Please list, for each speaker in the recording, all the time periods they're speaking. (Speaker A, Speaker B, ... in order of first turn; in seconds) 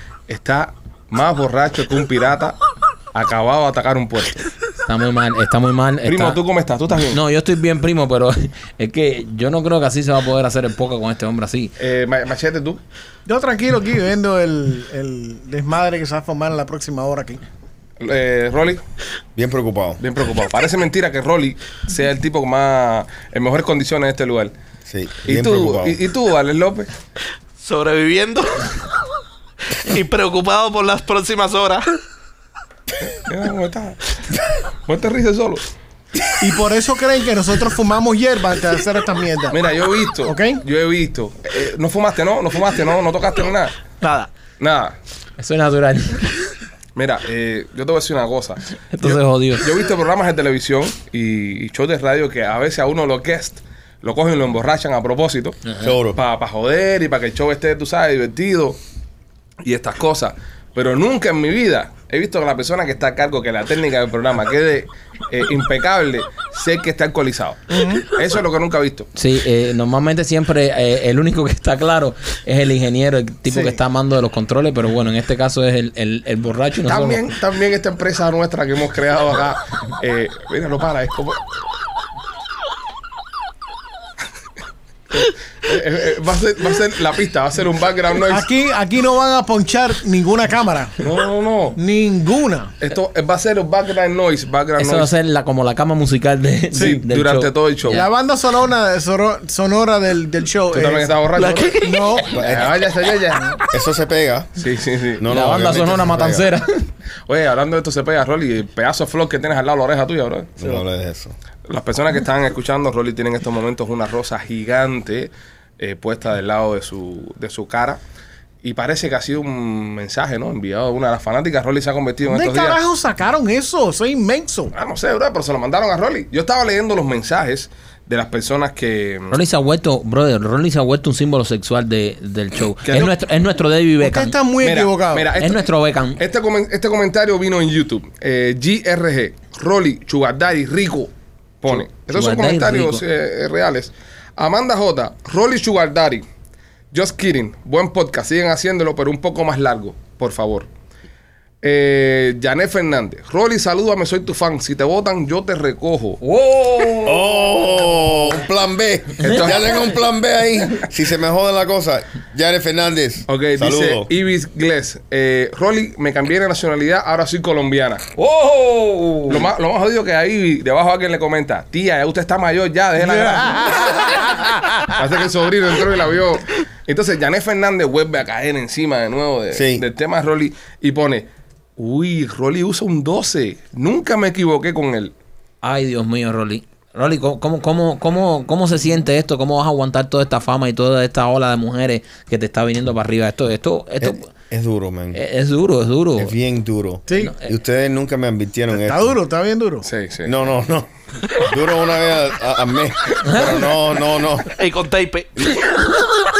Speaker A: 0.3-2.6, 3.1-4.4, 6.0-7.2, 11.8-12.8, 18.0-18.8, 20.0-24.5, 25.2-26.9, 33.1-34.1, 34.9-35.7, 39.5-43.8, 44.6-45.0, 47.0-55.6, 56.1-58.8, 59.6-69.1, 76.9-81.4, 85.1-88.5, 91.0-91.8, 92.8-95.1, 96.7-98.0, 100.7-103.5, 104.6-105.3, 107.3-110.5, 111.7-118.0, 118.6-122.8, 124.7-129.4, 132.8-133.1, 134.6-135.7, 136.2-141.1, 141.6-146.3, 146.9-150.7, 151.6-156.2, 159.2-159.9, 163.3-168.1, 169.3-174.1, 174.9-185.1, 199.8-200.3
Speaker B: 4.9-6.4, 7.1-11.7, 45.4-46.3, 48.9-49.7, 69.1-77.2, 94.8-98.1, 105.3-106.8, 129.3-134.3, 135.4-136.2, 142.1-143.0, 156.2-157.8, 159.2-159.8, 168.2-169.5, 185.6-194.3, 195.1-196.3, 197.1-197.5
Speaker C: 13.3-17.4, 36.4-39.6, 40.2-40.6, 67.7-68.1, 73.5-73.8, 88.3-90.9, 91.8-92.7, 96.8-97.0, 97.9-101.1, 101.8-102.3, 122.2-124.7, 134.0-135.3, 173.2-174.3, 197.1-197.3, 198.8-199.9
Speaker D: 19.4-20.0, 24.9-26.0, 55.8-56.2, 102.3-102.8, 103.7-104.5, 105.2-106.5, 110.6-111.3, 157.0-164.1, 179.5-179.8, 194.0-195.2, 196.2-199.1, 200.2-204.5
Speaker E: 27.6-28.7, 29.8-32.0, 44.0-44.3, 101.4-102.2, 204.5-205.3